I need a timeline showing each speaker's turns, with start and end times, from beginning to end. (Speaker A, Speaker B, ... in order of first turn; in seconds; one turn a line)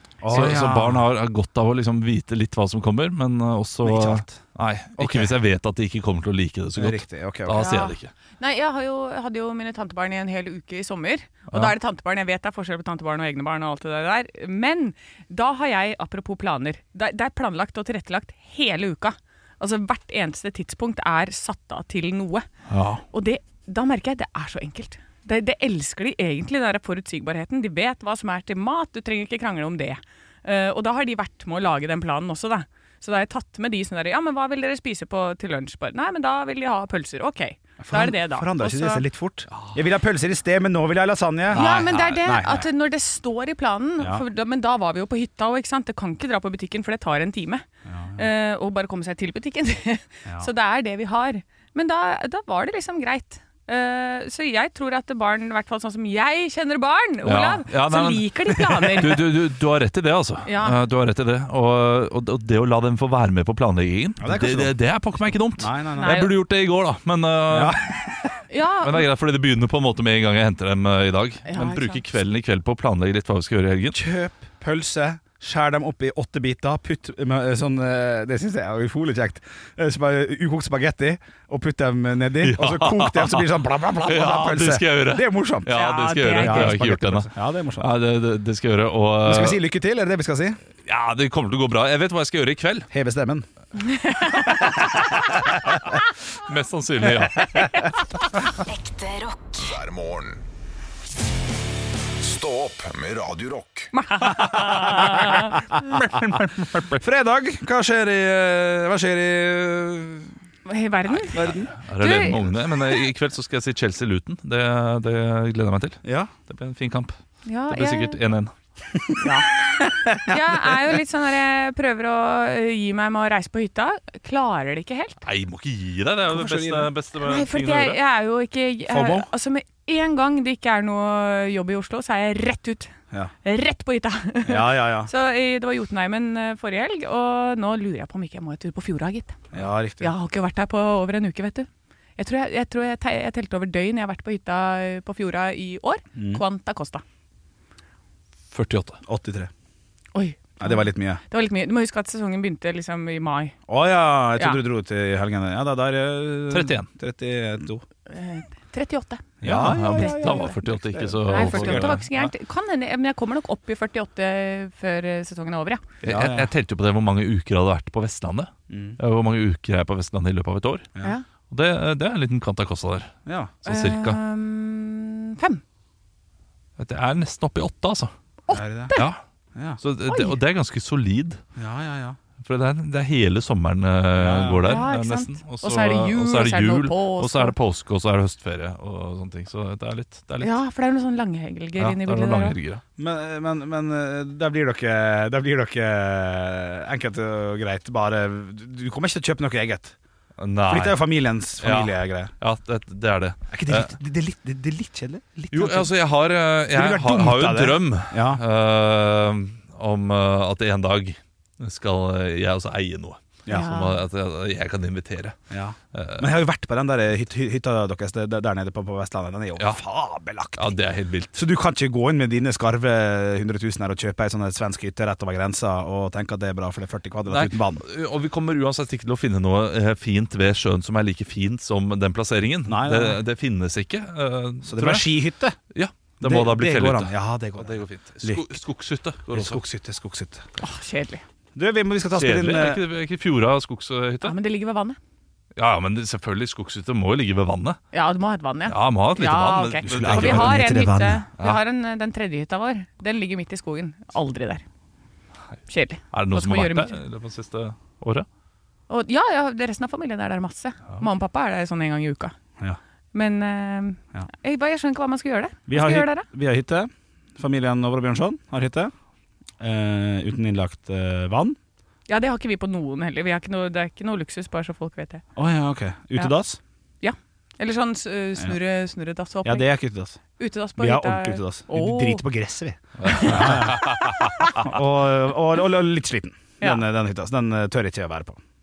Speaker A: 0.2-1.1
Speaker B: 0.3-8.1
Speaker A: 3.8-4.4
Speaker A: 5.0-5.3
Speaker A: 6.8-7.7
Speaker C: 7.5-22.5
Speaker B: 22.7-23.0
Speaker C: 23.1-39.0
Speaker A: 37.8-42.7
Speaker B: 41.5-42.3
Speaker C: 41.5-59.3
Speaker A: 44.0-44.2
Speaker A: 47.9-48.3
Speaker B: 57.2-67.8
Speaker A: 58.6-59.0
Speaker C: 60.5-60.8
Speaker A: 64.2-64.7
Speaker A: 65.6-66.2
Speaker C: 66.0-66.3
Speaker A: 67.5-68.4
Speaker C: 68.5-69.1
Speaker B: 68.8-74.0
Speaker C: 71.5-72.0
Speaker A: 73.9-85.7
Speaker B: 82.4-83.5
Speaker B: 84.0-89.6
Speaker C: 85.7-86.8
Speaker A: 86.3-87.9
Speaker A: 89.2-90.6
Speaker B: 90.9-92.9
Speaker A: 92.9-93.5
Speaker C: 93.8-95.3
Speaker A: 95.0-95.8
Speaker B: 96.4-97.8
Speaker A: 97.0-97.8
Speaker D: 98.6-100.4
Speaker D: 102.2-103.9
Speaker C: 103.9-105.6
Speaker B: 104.5-107.0
Speaker A: 106.9-110.3
Speaker C: 110.7-111.4
Speaker A: 111.3-111.7
Speaker B: 111.3-117.2
Speaker C: 111.9-113.0
Speaker A: 116.0-116.3
Speaker C: 117.5-118.2
Speaker B: 117.7-118.5
Speaker C: 119.2-125.2
Speaker A: 119.9-120.4
Speaker B: 125.2-128.0
Speaker A: 126.3-126.9
Speaker C: 127.2-132.9
Speaker A: 128.9-129.3
Speaker C: 133.4-147.0
Speaker A: 134.5-135.1
Speaker A: 139.5-140.1
Speaker A: 146.2-146.4
Speaker B: 148.5-149.0
Speaker A: 149.1-149.5
Speaker C: 150.2-153.6
Speaker A: 150.6-151.2
Speaker A: 153.7-157.8
Speaker B: 156.5-156.9
Speaker C: 158.1-160.6
Speaker A: 159.4-162.0
Speaker B: 159.4-162.3
Speaker C: 161.2-165.8
Speaker B: 166.0-170.9
Speaker A: 166.0-166.5
Speaker A: 168.7-169.0
Speaker B: 171.5-174.2
Speaker A: 173.3-173.6
Speaker C: 173.7-175.6
Speaker B: 176.8-178.1
Speaker C: 178.5-179.1
Speaker A: 178.5-178.9
Speaker A: 179.6-179.8
Speaker B: 179.8-181.4
Speaker C: 180.1-180.4
Speaker A: 181.6-182.2
Speaker B: 182.4-190.5
Speaker A: 184.2-184.7
Speaker C: 184.6-187.6
Speaker C: 190.4-192.6
Speaker B: 191.8-192.8
Speaker A: 193.0-199.9
Speaker B: 200.4-201.0
Speaker A: 200.7-202.3
Speaker B: 201.6-203.9
Speaker A: 203.5-205.9
Speaker B: 205.5-215.4
Speaker A: 206.7-208.4
Speaker A: 213.5-213.8
Speaker C: 213.5-214.0
Speaker A: 215.5-220.8
Speaker B: 215.9-216.3
Speaker B: 220.6-221.4
Speaker A: 221.3-227.8
Speaker B: 227.3-235.1
Speaker A: 232.7-233.2
Speaker A: 234.7-235.6
Speaker B: 235.7-239.6
Speaker A: 236.2-238.5
Speaker A: 239.3-240.4
Speaker C: 240.6-241.2
Speaker A: 241.6-242.8
Speaker B: 242.2-244.4
Speaker C: 244.2-245.0
Speaker B: 245.6-247.8
Speaker C: 247.9-254.6
Speaker B: 248.7-250.7
Speaker A: 249.8-251.2
Speaker C: 255.7-257.0
Speaker B: 256.1-258.3
Speaker C: 258.9-262.4
Speaker C: 263.1-266.3
Speaker A: 265.7-268.9
Speaker A: 269.6-271.6
Speaker C: 272.1-275.2
Speaker A: 275.4-276.6
Speaker C: 277.0-279.7
Speaker A: 279.4-280.2
Speaker C: 280.4-282.2
Speaker A: 280.8-283.9
Speaker B: 283.0-284.2
Speaker C: 283.1-284.7
Speaker A: 284.6-288.4